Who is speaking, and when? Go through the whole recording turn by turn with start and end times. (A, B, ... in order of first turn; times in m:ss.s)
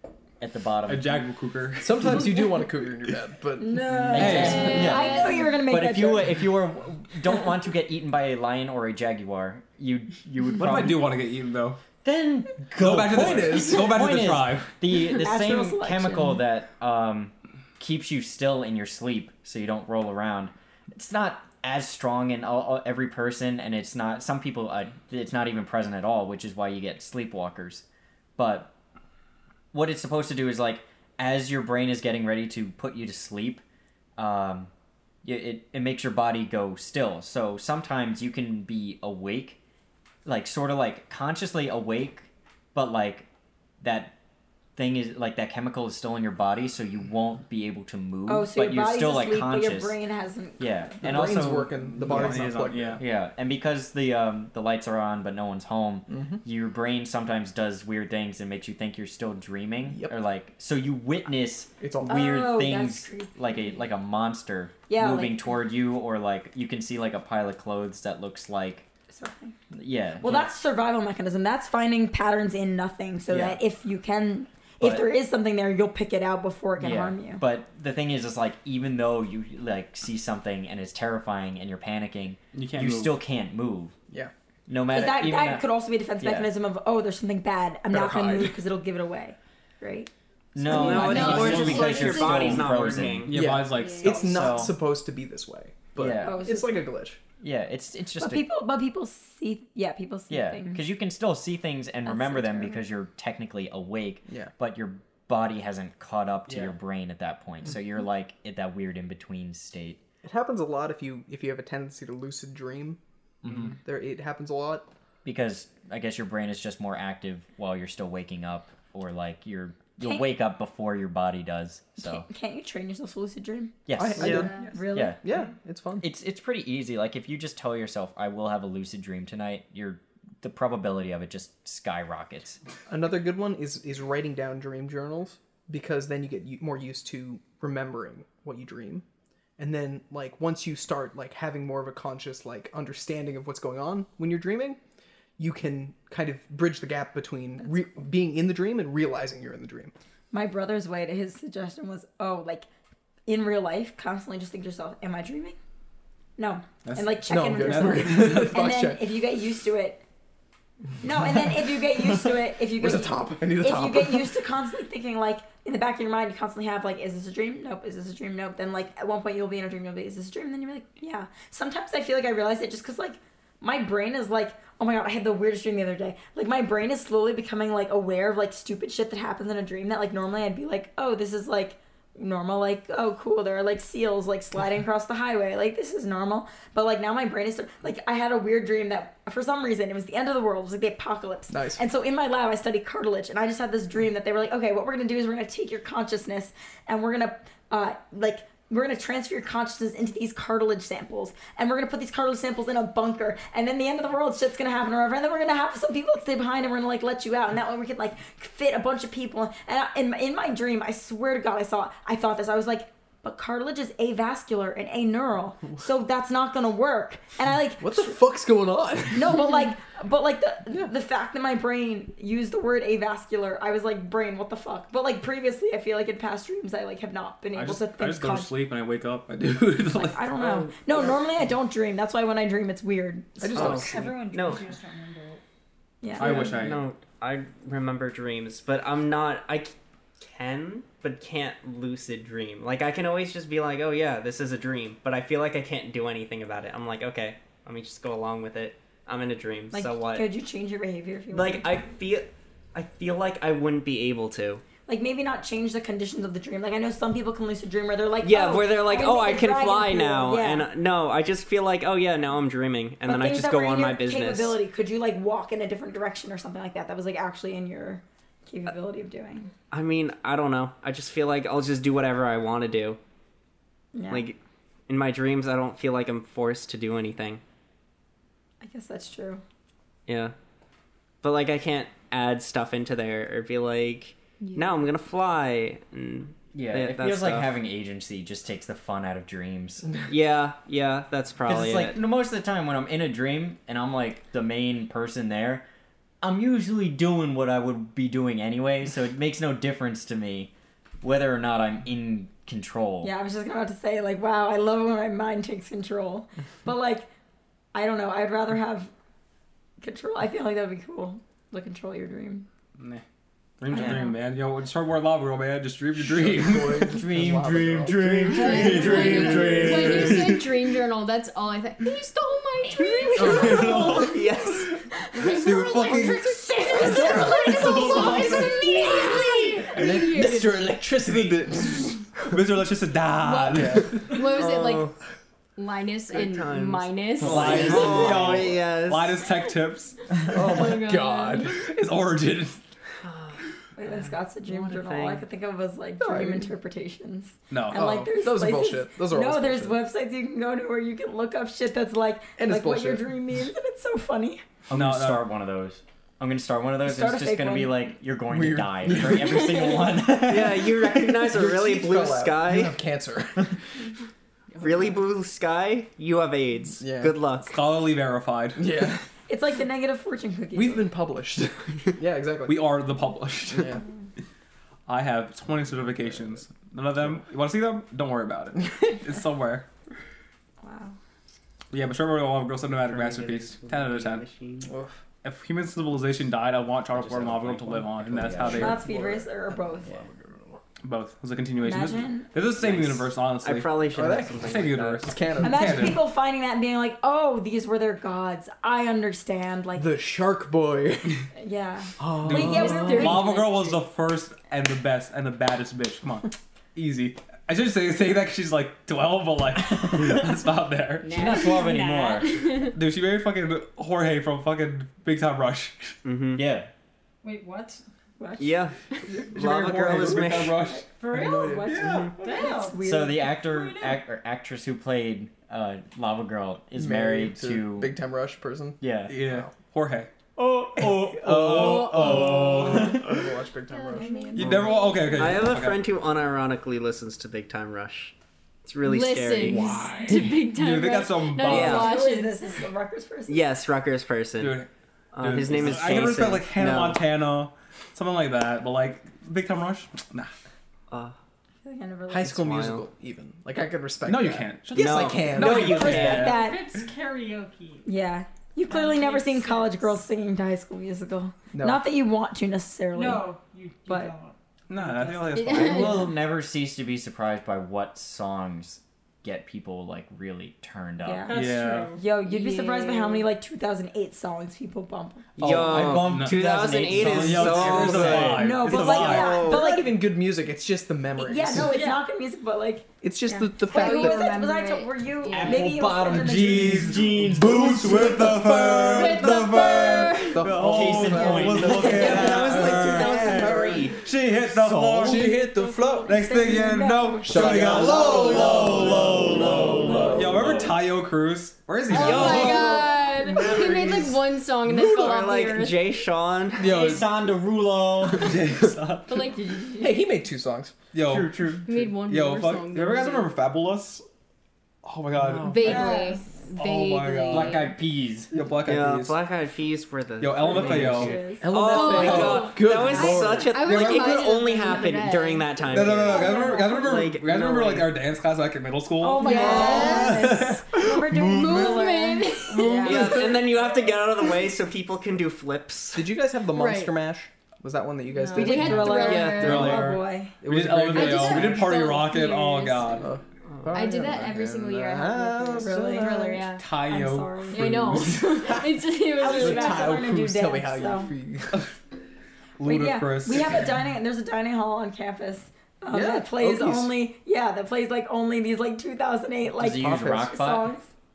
0:00.4-0:01.2 A
0:00.9-0:02.4 B
0:01.8-0:04.8 C
0:03.6-0:06.4 D
0:04.1-0:04.7 B
0:04.1-0:11.0 A
0:04.2-0:05.5 E
0:10.6-0:11.8 B
0:12.0-0:27.8 A
0:12.8-0:14.7 B
0:12.8-0:14.0 C
0:15.0-0:16.4 D
0:28.4-0:28.7 A
0:29.7-0:33.6 A
0:34.2-0:34.7 A
0:35.2-0:39.6 A
0:40.2-0:43.3 A
0:43.8-0:44.1 A
0:44.8-0:50.0 A
0:48.3-0:51.3 D
0:50.6-1:08.9 A
0:51.0-0:53.0 C
0:51.8-0:53.0 B
0:56.1-0:56.4 C
0:59.8-1:00.1 C
1:01.8-1:02.2 C
1:02.0-1:03.9 D
1:04.9-1:05.5 D
1:09.1-1:09.5 D
1:09.7-1:10.5 A
1:10.2-1:17.4 D
1:13.3-1:13.6 A
1:14.8-1:15.0 A
1:16.8-1:23.9 A
1:22.5-1:23.2 B
1:24.7-1:25.7 A
1:24.9-1:30.1 D
1:26.2-1:26.5 A
1:27.9-1:28.6 C
1:30.5-1:33.3 A
1:30.6-1:33.3 F
1:30.7-1:31.2 D
1:30.7-1:32.9 E
1:31.0-1:32.3 B
1:33.1-1:34.6 B
1:33.3-1:37.2 C
1:33.7-1:34.2 E
1:34.0-1:34.8 A
1:36.0-1:36.4 A
1:36.2-1:36.8 D
1:37.4-1:38.5 A
1:38.2-1:40.8 D
1:40.3-1:50.0 A
1:42.0-1:42.8 D
1:46.5-1:46.7 B
1:50.2-1:53.0 C
1:53.4-1:53.7 A
1:53.5-1:54.9 C
1:55.2-2:02.2 A
2:00.0-2:00.3 D
2:02.0-2:05.3 D
2:03.8-2:05.3 A
2:03.9-2:06.1 C
2:06.0-2:12.6 A
2:12.9-2:19.0 C
2:19.6-2:24.8 C
2:25.4-2:29.9 C
2:30.3-2:32.7 D
2:33.2-2:35.6 D
2:36.4-2:40.0 D
2:36.8-2:38.6 B
2:37.3-2:39.1 C
2:41.0-3:38.2 D
2:42.8-2:44.3 C
3:11.5-3:11.8 C
3:37.8-3:39.4 C
3:39.1-3:48.5 D
3:47.5-3:50.3 B
3:49.9-3:53.8 D
3:50.4-3:51.2 F
3:53.4-3:54.2 C
3:53.5-3:54.7 F
3:53.7-3:55.4 G
3:56.0-3:56.6 D
3:56.1-3:56.8 B
3:56.2-4:10.2 F
4:09.7-4:11.7 D
4:11.3-4:14.6 F
4:14.9-4:20.7 D
4:18.2-4:24.6 F
4:23.0-4:29.5 D
4:29.7-4:33.0 F
4:33.9-4:34.3 D
4:34.1-4:37.4 F
4:38.6-4:39.4 D
4:40.1-4:40.3 F
4:41.2-4:47.5 F
4:44.4-4:44.7 E
4:46.5-4:49.9 A
4:50.1-4:52.0 F
4:51.5-4:55.6 A
4:56.2-5:00.5 A
5:01.0-5:03.1 A
5:03.0-5:07.1 D
5:07.7-5:08.9 D
5:09.8-5:12.5 D
5:12.8-5:13.0 B
5:13.6-5:17.0 B
5:13.7-5:14.1 D
5:13.7-5:14.0 A
5:16.0-5:20.3 C
5:16.9-5:20.5 A
5:18.3-5:24.2 E
5:18.9-5:19.2 B
5:23.2-5:24.0 C
5:23.2-5:24.7 F
5:23.2-5:24.1 B
5:24.9-5:30.7 E
5:25.2-5:27.0 B
5:26.7-5:32.3 C
5:27.6-5:28.5 B
5:28.1-5:29.2 F
5:31.0-5:34.1 B
5:33.2-5:34.9 E
5:33.5-5:33.9 C
5:34.2-5:34.9 F
5:35.6-5:38.2 E
5:36.1-5:39.2 F
5:37.2-5:40.0 B
5:40.2-5:41.6 C
5:40.3-5:41.5 E
5:41.5-5:42.6 B
5:43.0-5:45.2 F
5:43.8-5:54.4 D
5:46.0-5:46.5 C
5:47.5-5:47.9 B
5:47.7-5:49.8 C
5:52.4-5:53.1 C
5:54.7-6:01.0 A
5:54.7-5:55.3 B
5:56.8-5:57.8 D
5:58.3-5:59.8 C
6:00.2-6:02.8 F
6:01.0-6:03.6 C
6:04.6-6:07.6 F
6:06.8-6:07.1 C
6:07.5-6:08.7 B
6:08.6-6:09.1 C
6:09.3-6:10.9 D
6:10.5-6:12.8 C
6:12.5-6:13.8 B
6:13.5-6:13.8 C
6:14.9-6:19.7 B
6:20.6-6:21.0 D
6:21.7-6:24.2 B
6:22.8-6:24.7 F
6:24.6-6:25.0 C
6:25.2-6:29.1 B
6:26.9-6:28.8 A
6:28.4-6:30.6 C
6:28.5-6:29.9 D
6:30.8-6:33.8 B
6:31.6-6:32.3 D
6:33.4-6:35.1 F
6:33.9-6:34.4 C
6:34.4-6:36.0 B
6:35.0-6:36.0 C
6:35.4-6:39.9 D
6:39.8-6:41.2 C
6:41.3-6:43.3 D
6:42.0-6:43.2 C
6:42.2-6:51.3 B
6:42.3-6:43.7 E
6:51.0-6:52.8 E
6:51.1-6:52.4 A
6:52.7-6:56.0 B
6:56.0-6:56.4 F
6:56.3-6:56.7 A
6:57.2-6:57.8 G
6:58.2-6:58.6 D
6:58.4-6:58.8 F
6:59.3-7:00.6 F
6:59.3-7:01.0 B
6:59.9-7:00.3 C
7:00.7-7:03.4 D
7:01.1-7:02.1 C
7:01.3-7:02.8 G
7:01.7-7:02.0 B
7:01.8-7:02.1 F
7:02.8-7:08.0 A
7:03.4-7:04.0 G
7:06.8-7:09.5 C
7:08.8-7:09.1 A
7:09.1-7:13.2 B
7:10.7-7:14.7 C
7:11.6-7:13.0 E
7:13.7-7:15.5 E
7:13.9-7:14.5 D
7:14.4-7:15.8 B
7:15.1-7:18.1 F
7:18.6-7:20.1 F
7:18.8-7:22.4 E
7:19.4-7:20.2 C
7:20.5-7:21.9 B
7:21.4-7:21.9 F
7:21.5-7:23.4 D
7:23.3-7:27.0 F
7:24.4-7:30.3 B
7:30.9-7:31.2 F
7:31.6-7:32.4 D
7:32.1-7:36.2 C
7:32.2-7:32.8 F
7:34.0-7:36.5 B
7:34.7-7:36.4 F
7:35.3-7:36.6 D
7:36.2-7:37.9 G
7:37.8-7:43.3 D
7:38.7-7:40.0 G
7:41.5-7:41.8 C
7:42.9-7:45.4 G
7:43.8-7:44.1 D
7:44.7-7:46.0 B
7:45.3-7:46.2 E
7:45.5-7:51.4 A
7:51.0-7:55.2 D
7:51.2-7:53.2 G
7:51.3-7:51.9 B
7:55.4-7:59.5 B
7:55.4-7:59.8 F
7:55.4-7:58.4 A
7:57.0-7:57.8 C
7:58.3-7:59.9 D
7:58.7-8:01.8 C
8:01.2-8:06.9 D
8:01.5-8:02.0 G
8:03.0-8:04.4 C
8:03.7-8:05.8 E
8:03.9-8:04.6 G
8:05.3-8:13.8 A
8:05.8-8:09.5 C
8:05.9-8:09.4 B
8:08.9-8:10.5 E
8:10.3-8:14.0 C
8:10.4-8:22.8 B
8:11.2-8:11.9 D
8:11.8-8:13.9 F
8:14.3-8:15.3 A
8:15.0-8:15.9 C
8:16.0-8:18.9 D
8:17.2-8:20.2 C
8:17.3-8:20.8 A
8:21.9-8:25.9 E
8:21.9-8:26.7 F
8:26.6-8:28.4 A
8:26.6-8:27.0 C
8:28.1-8:29.2 B
8:29.1-8:29.9 E
8:29.8-8:30.8 C
8:30.9-8:34.0 B
8:31.1-8:31.6 A
8:31.6-8:33.3 E
8:34.8-8:35.9 B
8:35.4-8:37.8 E
8:35.6-8:36.2 D
8:36.6-8:37.7 B
8:37.3-8:38.3 A
8:38.3-8:39.2 B
8:38.6-8:47.9 F
8:40.2-8:41.2 B
8:40.4-8:41.4 D
8:41.4-8:43.6 C
8:41.6-8:46.8 E
8:42.1-8:42.3 B
8:43.6-8:44.2 B
8:45.7-8:50.7 B
8:46.1-8:46.8 D
8:49.0-8:53.4 D
8:49.2-8:53.2 E
8:49.4-8:50.0 F
8:52.8-8:56.1 F
8:55.9-8:59.1 C
8:56.5-8:57.0 E
8:58.1-8:59.8 E
8:58.3-9:00.4 D
8:58.8-9:03.1 B
8:58.8-8:59.8 F
9:00.4-9:01.7 C
9:00.9-9:03.1 E
9:03.0-9:06.4 C
9:03.5-9:04.0 F
9:03.7-9:06.7 E
9:05.6-9:07.7 D
9:06.6-9:08.4 B
9:07.5-9:10.0 E
9:09.1-9:11.1 D
9:09.4-9:11.6 C
9:12.6-9:13.7 B
9:12.6-9:20.9 D
9:15.9-9:16.9 C
9:19.5-9:20.7 A
9:19.8-9:20.4 C